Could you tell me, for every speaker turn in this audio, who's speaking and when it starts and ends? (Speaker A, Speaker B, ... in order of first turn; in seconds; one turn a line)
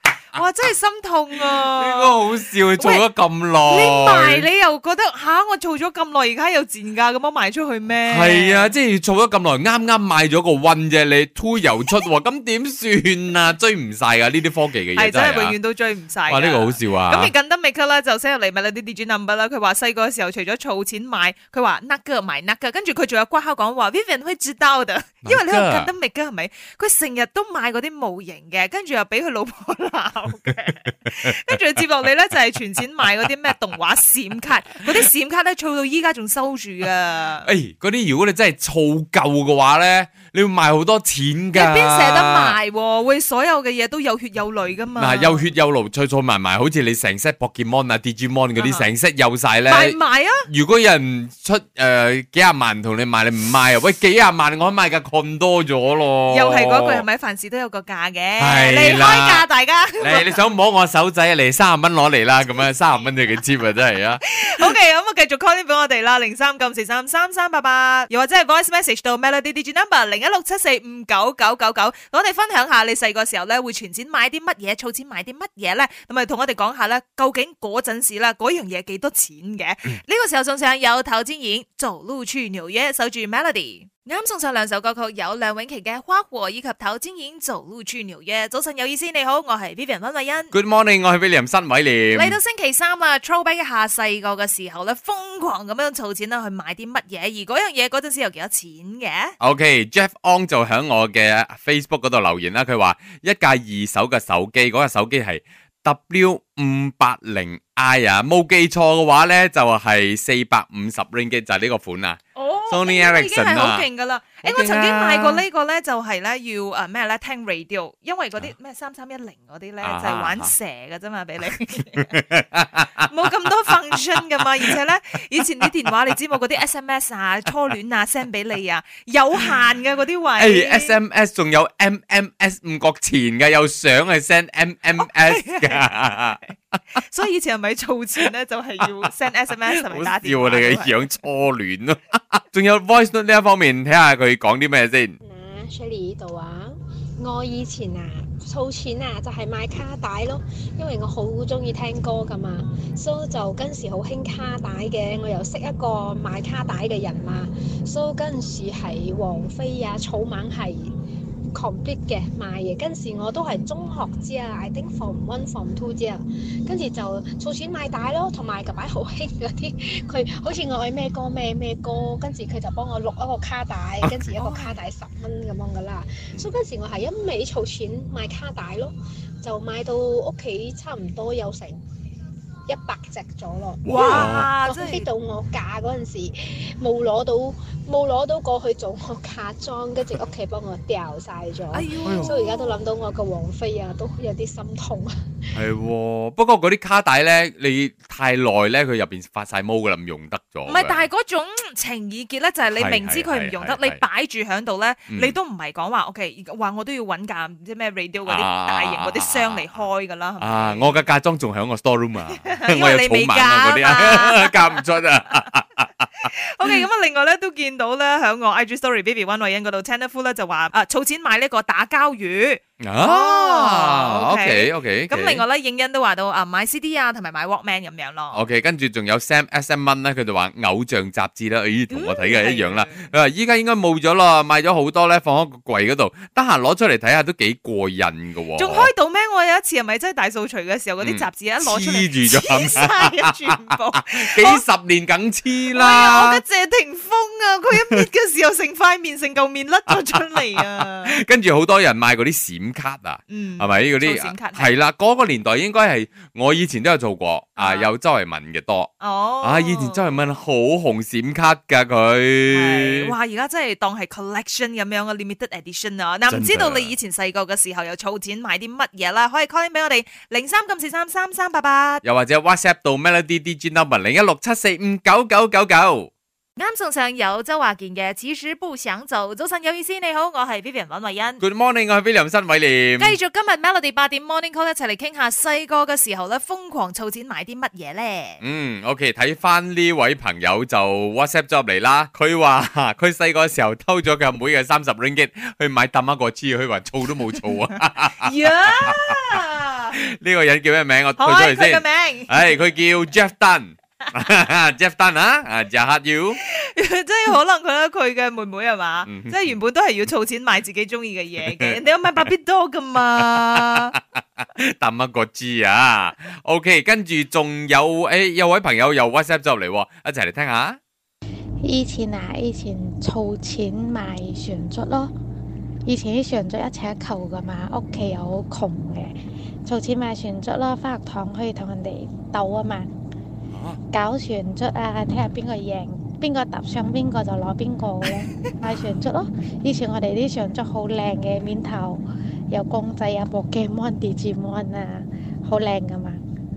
Speaker A: 0.3-2.2
Speaker B: 1.6-4.5
Speaker A: 2.8-3.0
Speaker A: 3.7-8.7
Speaker B: 8.1-15.6
Speaker A: 14.9-37.5
Speaker B: 16.3-17.3
Speaker B: 25.2-25.9
Speaker B: 37.5-42.6
Speaker A: 41.5-45.5
Speaker B: 45.0-57.0
Speaker A: 48.6-48.9
Speaker A: 49.7-50.5
Speaker A: 56.3-60.2
Speaker B: 58.4-59.5
Speaker B: 60.0-64.7
Speaker A: 64.2-90.5
Speaker B: 90.5-92.4
Speaker A: 92.1-99.3
Speaker B: 99.4-113.9
Speaker A: 112.4-122.2
Speaker B: 114.4-115.4
Speaker B: 119.8-120.5
Speaker B: 122.0-122.9
Speaker A: 123.0-131.0
Speaker B: 130.4-136.8
Speaker A: 135.0-141.0
Speaker B: 139.8-145.2
Speaker C: 145.2-160.9
Speaker C: 161.5-181.8
Speaker B: 174.0-174.3
Speaker A: 174.4-174.8
Speaker C: 182.7-195.1
Speaker B: 183.8-184.5
Speaker A: 183.8-185.1
Speaker A: 191.7-192.8
Speaker B: 192.1-192.4
Speaker B: 195.5-201.1
Speaker A: 200.7-211.0
Speaker B: 202.7-204.0
Speaker B: 205.1-205.4
Speaker B: 208.3-209.7
Speaker B: 210.4-216.8
Speaker A: 212.4-214.8
Speaker A: 216.3-228.4
Speaker B: 222.8-225.4
Speaker B: 228.3-238.9
Speaker A: 231.9-233.1
Speaker A: 238.6-244.6
Speaker B: 241.0-243.6
Speaker B: 244.1-246.4
Speaker A: 245.7-251.2
Speaker B: 249.9-258.9
Speaker A: 253.3-254.7
Speaker A: 257.6-257.9
Speaker A: 259.0-260.1
Speaker B: 259.4-263.1
Speaker A: 262.5-272.0
Speaker B: 266.3-266.9
Speaker B: 272.0-276.1
Speaker A: 276.6-281.4
Speaker B: 281.4-283.2
Speaker A: 283.0-288.4
Speaker B: 288.4-299.2
Speaker A: 298.1-299.9
Speaker B: 300.0-306.4
Speaker A: 301.2-302.4
Speaker A: 306.5-313.9
Speaker B: 309.1-309.5
Speaker B: 314.4-320.8
Speaker D: 321.6-325.1
Speaker D: 325.9-329.1
Speaker D: 329.7-332.9
Speaker B: 333.5-333.8
Speaker D: 333.9-346.2